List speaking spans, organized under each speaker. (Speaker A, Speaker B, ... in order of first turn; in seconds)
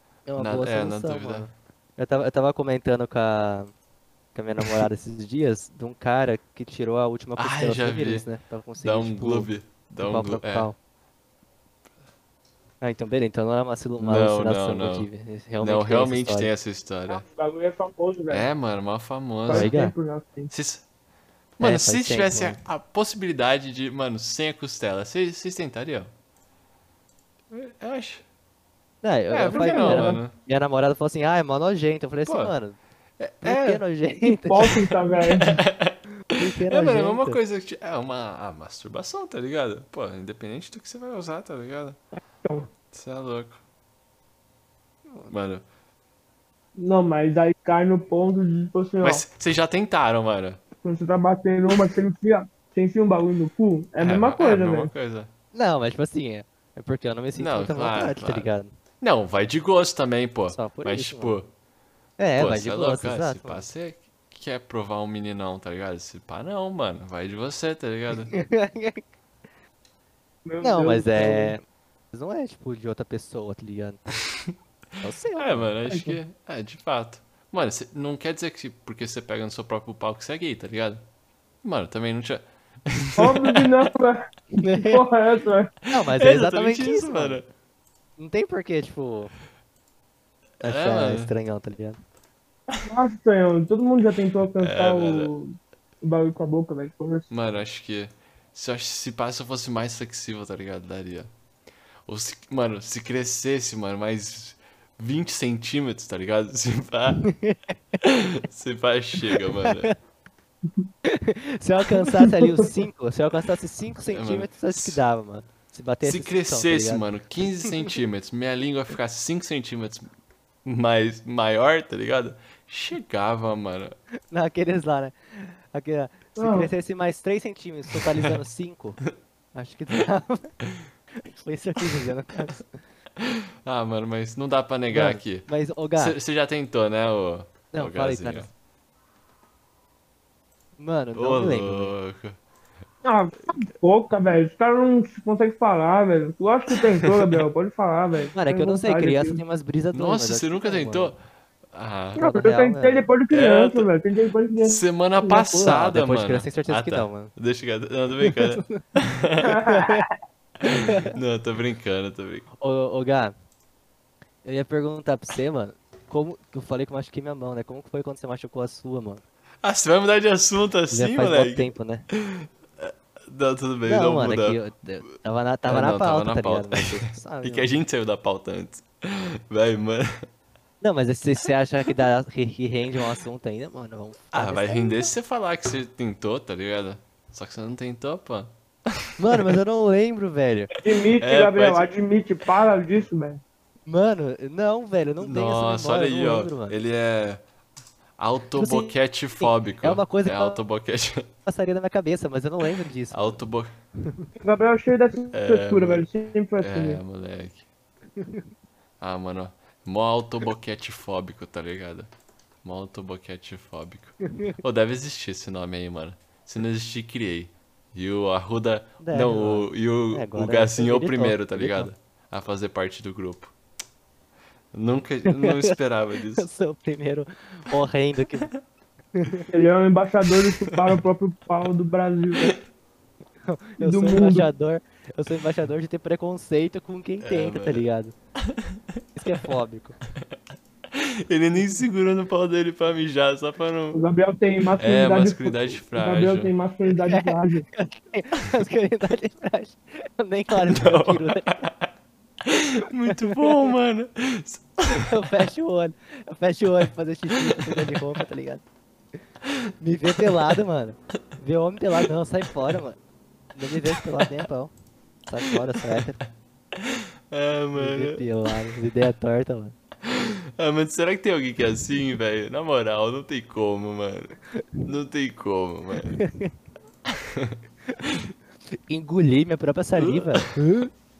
Speaker A: 0.3-3.7, 4.3-10.8, 12.8-16.5, 19.5-19.9, 21.6-22.6, 29.0-32.8, 33.4-34.8, 36.3-37.4, 55.5-58.7, 60.5-61.4, 62.2-63.7, 68.3-69.0, 70.6-71.6, 72.1-74.1, 75.0-75.7, 84.6-85.0, 85.9-87.4, 88.2-89.3, 90.6-92.0, 107.2-108.0, 109.3-110.0, 111.0-117.9, 124.3-129.0, 129.5-130.5, 131.1-132.8, 134.9-136.2, 137.7-138.5, 140.8-141.9, 148.3-151.1, 152.2-153.1, 155.6-157.3, 158.2-158.8, 159.6-160.1, 160.6-161.1, 162.6-163.3, 164.4-169.2, 170.9-172.1, 173.8-177.7, 180.8-184.8, 189.2-190.7, 193.9-196.8, 198.6-200.6, 201.4-203.4, 204.0-204.3, 208.2-208.5, 214.2-214.6, 219.0-221.9, 225.3-225.7, 226.4-228.5, 229.1-229.5, 233.4-238.1, 239.2-240.0, 246.9-251.5, 253.1-253.7, 254.9-259.2, 259.8-263.0, 263.5-264.7, 265.2-266.2, 267.7-269.8, 274.5-274.9, 276.1-276.5, 278.7-280.9
Speaker B: 0.4-1.5, 7.4-8.3, 8.8-10.7, 14.0-15.1, 15.6-17.2, 18.3-19.7, 20.5-20.8, 21.6-26.1, 27.5-28.2, 29.3-30.3, 32.3-32.5, 33.2-33.8, 35.3-42.0, 42.9-43.6, 45.3-45.6, 49.0-50.6, 54.0-55.3, 57.4-58.5, 59.0-61.5, 62.4-68.3, 75.4-81.0, 81.6-83.7, 86.0-87.5, 90.6-91.3, 94.6-95.3, 97.3-101.3, 102.0-107.3, 108.0-109.9, 114.1-115.0, 116.0-120.1, 120.6-123.9, 128.0-128.3, 133.2-135.4, 135.9-138.5, 141.2-142.4, 147.0-147.4, 149.9-151.2, 151.7-152.2, 153.3-153.9, 154.6-159.5, 160.6-162.5, 169.6-174.6, 175.7-180.2, 184.3-188.5, 191.2-191.9, 195.2-197.4, 198.2-201.3, 203.1-203.7, 205.3-206.1, 206.6-207.6, 209.0-212.1, 212.6-223.5, 224.7-226.5, 230.7-230.9, 237.2-237.8, 238.4-239.4, 240.9-244.0, 244.8-246.5, 250.6-251.9, 252.4-255.1, 257.4-258.1, 260.2-260.5, 264.0-264.3, 266.8-268.5, 270.0-276.2, 277.1-278.2, 279.9-280.6
Speaker C: 17.1-18.5, 19.4-20.5, 29.5-30.2, 34.2-35.6, 42.4-42.7, 46.8-49.2, 50.8-54.9, 70.5-71.6, 75.9-76.2, 83.2-85.7, 92.7-97.3, 126.3-126.7, 143.0-149.4, 152.2-155.8, 159.4-160.1, 190.8-193.4, 204.4-207.0, 229.5-232.5, 233.8-234.5, 243.9-247.7